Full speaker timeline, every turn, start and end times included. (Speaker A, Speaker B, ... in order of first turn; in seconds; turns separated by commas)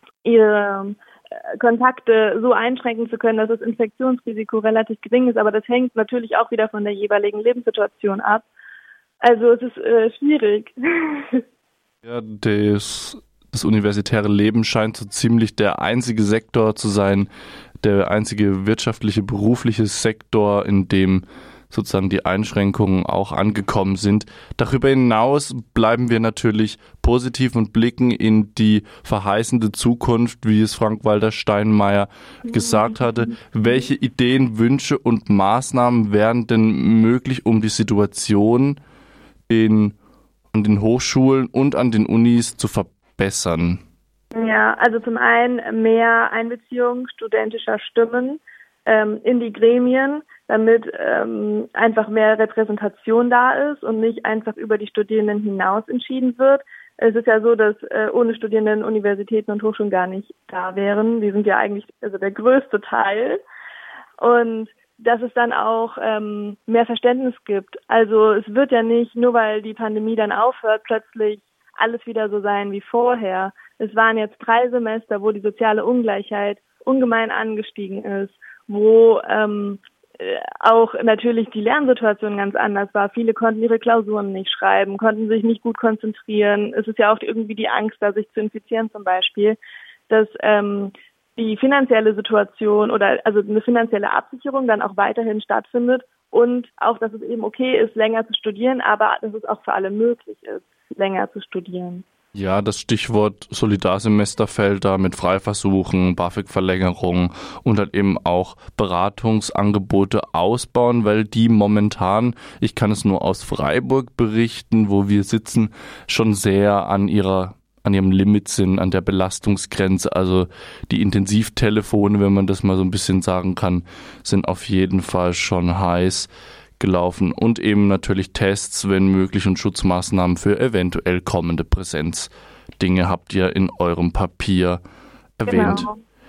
Speaker A: 0.2-8.5, Speaker A: 9.2-11.4, Speaker B: 12.0-17.3, Speaker B: 17.8-38.8, Speaker A: 32.5-33.3, Speaker B: 39.5-40.0, Speaker B: 40.5-43.8, Speaker A: 44.3-63.4, Speaker A: 64.2-89.6, Speaker A: 90.1-102.0, Speaker B: 102.3-134.8, Speaker B: 135.4-135.9, Speaker A: 135.5-136.0